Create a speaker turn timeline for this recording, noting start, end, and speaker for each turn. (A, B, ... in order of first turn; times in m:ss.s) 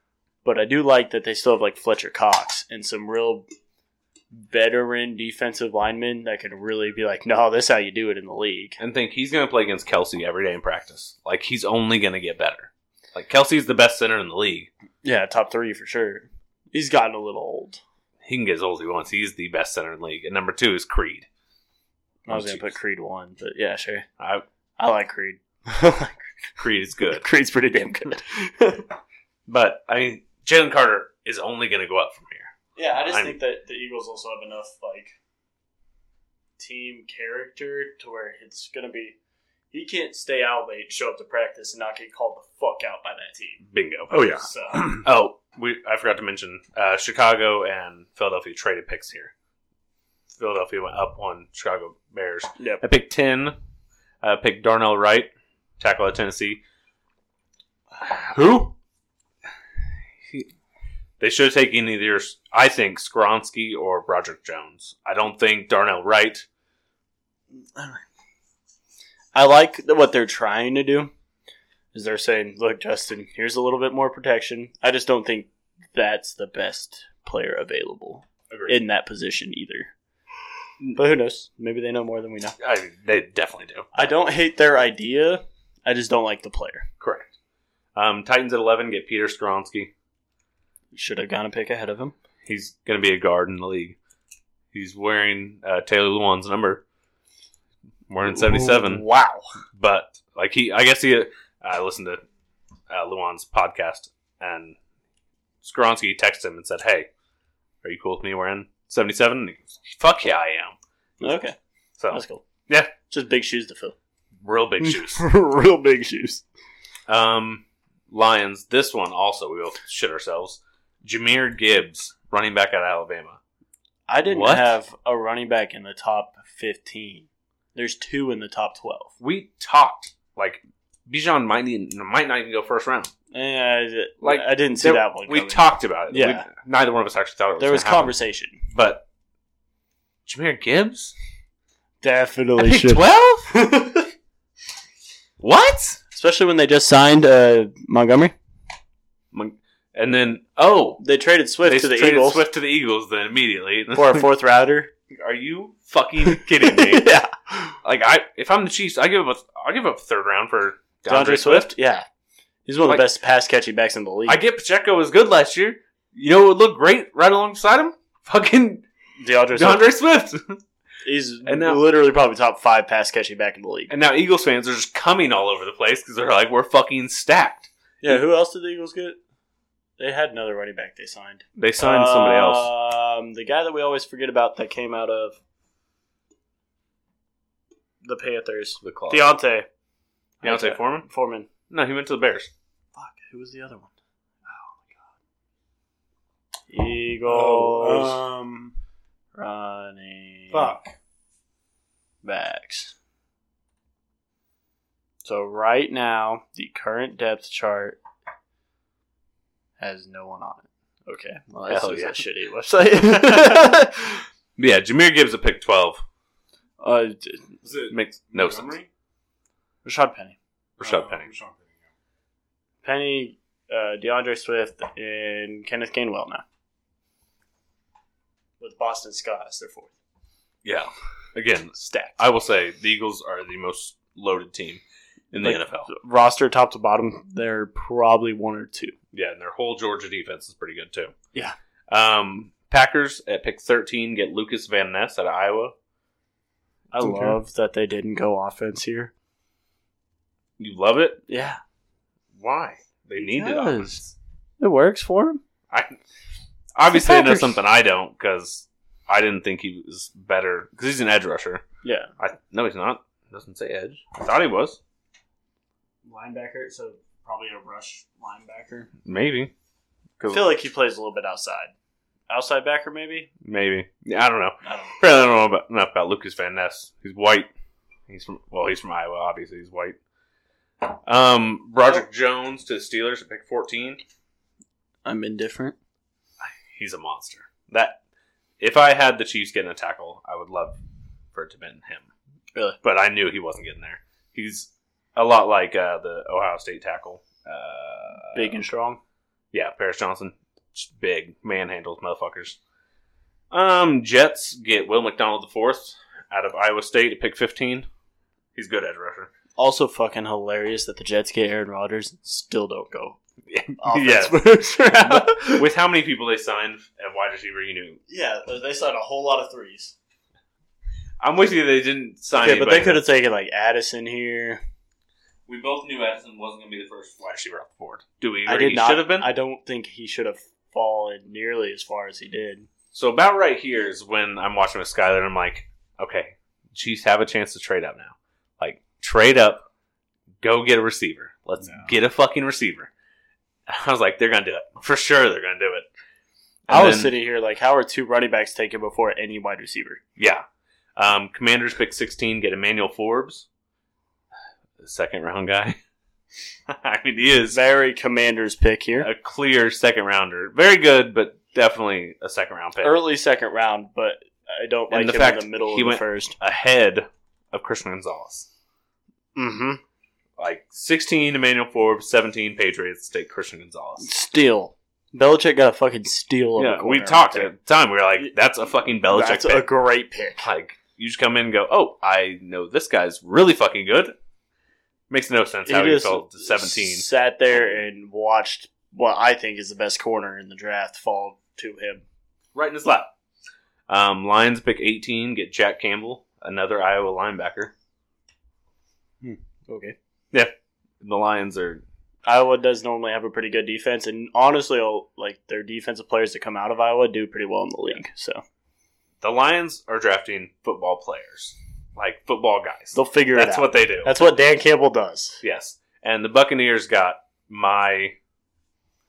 0:00.4-0:03.4 A
0:04.3-0:08.8 A
0:08.8-0:14.7 B
0:15.0-0:17.8 A
0:18.2-0:21.3 B
0:22.2-0:24.1 A
0:22.3-0:22.7 B
0:24.2-0:24.4 B
0:24.8-0:26.3 A
0:26.6-0:27.2 B
0:27.1-0:28.9 A
0:29.5-0:33.4 B
0:32.8-0:35.1 A
0:36.6-0:39.2 A
0:39.7-0:43.6 A
0:43.7-0:44.4 B
0:44.1-0:45.0 C
0:44.4-0:44.9 A
0:45.0-0:49.3 B
0:50.3-0:53.6 B
0:54.2-0:56.6 B
0:58.0-0:58.7 B
1:01.2-1:06.4 B
1:07.5-1:08.0 A
1:09.3-1:11.1 A
1:11.9-1:19.9 A
1:18.5-1:18.8 B
1:20.9-1:22.6 A
1:22.6-1:24.1 B
1:23.9-1:26.9 A
1:27.0-1:27.3 B
1:27.9-1:29.9 B
1:30.9-1:32.1 A
1:32.4-1:34.0 B
1:34.7-1:36.8 B
1:38.1-1:39.0 B
1:38.2-1:39.5 A
1:39.8-1:42.2 B
1:42.9-1:44.8 B
1:45.6-1:47.1 B
1:47.8-1:50.8 B
1:51.2-1:51.6 A
1:52.0-1:52.9 B
1:52.1-1:52.4 A
1:53.0-1:53.9 A
1:54.4-1:55.2 B
1:54.8-1:56.4 A
1:57.1-2:03.4 B
2:04.1-2:09.1 A
2:04.2-2:04.7 B
2:09.2-2:13.1 B
2:13.3-2:16.4 A
2:14.2-2:18.1 B
2:17.6-2:18.6 A
2:18.7-2:19.0 B
2:20.2-2:21.1 B
2:22.0-2:24.1 A
2:22.6-2:23.5 B
2:25.4-2:26.0 B
2:26.1-2:28.3 A
2:29.3-2:31.0 B
2:31.0-2:32.4 A
2:31.6-2:34.3 B
2:33.9-2:34.9 A
2:35.1-2:37.2 B
2:36.3-2:37.7 A
2:37.8-2:41.7 B
2:41.1-2:42.0 A
2:42.6-2:44.4 A
2:44.2-2:48.8 B
2:49.2-2:49.9 A
2:49.5-2:50.6 B
2:51.0-2:53.9 A
2:51.4-2:51.8 B
2:53.9-2:58.2 B
2:58.0-2:59.2 A
3:00.0-3:05.4 A
3:01.6-3:02.7 B
3:08.0-3:09.7 A
3:08.8-3:09.3 B
3:10.4-3:11.5 A
3:10.4-3:11.1 B
3:11.7-3:12.5 B
3:12.9-3:13.9 A
3:14.4-3:15.0 A
3:16.7-3:18.2 A
3:17.3-3:18.7 C
3:19.4-3:20.8 A
3:20.5-3:20.9 C
3:22.2-3:22.9 A
3:25.2-3:28.0 A
3:29.8-3:34.2 A
3:31.7-3:32.2 B
3:34.6-3:36.0 B
3:36.8-3:37.5 A
3:37.6-3:38.9 C
3:37.9-3:38.7 B
3:39.8-3:40.4 A
3:40.8-3:41.3 B
3:40.8-3:41.8 C
3:42.8-3:46.4 A
3:48.6-3:50.0 A
3:50.6-3:55.9 B
3:51.8-3:52.2 A
3:55.4-3:58.9 A
3:59.1-4:01.1 B
4:01.9-4:05.7 B
4:06.9-4:09.1 A
4:07.0-4:07.4 C
4:10.6-4:11.2 B
4:11.3-4:11.6 A
4:12.4-4:13.9 B
4:13.2-4:15.4 A
4:15.7-4:16.0 B
4:16.7-4:21.6 B
4:16.9-4:17.5 A
4:21.8-4:22.1 A
4:22.2-4:24.8 B
4:26.0-4:28.9 A
4:29.0-4:29.5 B
4:30.2-4:30.4 B
4:30.3-4:31.7 A
4:32.3-4:33.3 A
4:33.4-4:37.5 B
4:34.6-4:34.9 A
4:38.1-4:40.0 B
4:40.8-4:44.0 B
4:45.0-4:45.8 A
4:46.4-4:48.0 B
4:48.6-4:50.8 B
4:51.3-4:52.1 B
4:52.8-4:58.6 B
4:58.3-4:59.0 A
4:59.5-5:02.6 B
5:03.5-5:07.9 B
5:08.5-5:09.3 B
5:09.6-5:13.2 A
5:13.5-5:18.0 B
5:13.8-5:15.6 A
5:18.1-5:19.9 A
5:21.2-5:23.0 B
5:22.4-5:24.6 A
5:25.5-5:29.3 B
5:28.4-5:32.7 A
5:32.9-5:39.6 B
5:40.4-5:42.9 B
5:41.6-5:41.9 C
5:43.7-5:45.9 B
5:46.7-5:47.1 B
5:46.7-5:50.0 A
5:50.2-5:50.4 B
5:51.0-5:53.4 B
5:54.8-5:55.8 B
5:56.7-5:57.6 B
5:57.5-5:59.1 A
5:59.0-6:03.0 B
6:02.8-6:06.4 A
6:04.9-6:08.5 B
6:09.4-6:09.8 A
6:10.4-6:14.1 B
6:14.0-6:17.5 A
6:16.6-6:19.6 B
6:19.1-6:20.5 A
6:20.4-6:24.1 B
6:25.1-6:27.8 B
6:25.6-6:32.0 A
6:32.5-6:33.1 B
6:33.9-6:37.7 B
6:39.7-6:40.0 A
6:40.3-6:41.8 B
6:42.2-6:48.4 A
6:49.2-6:54.3 B
6:52.9-6:55.4 A
6:55.4-6:58.2 B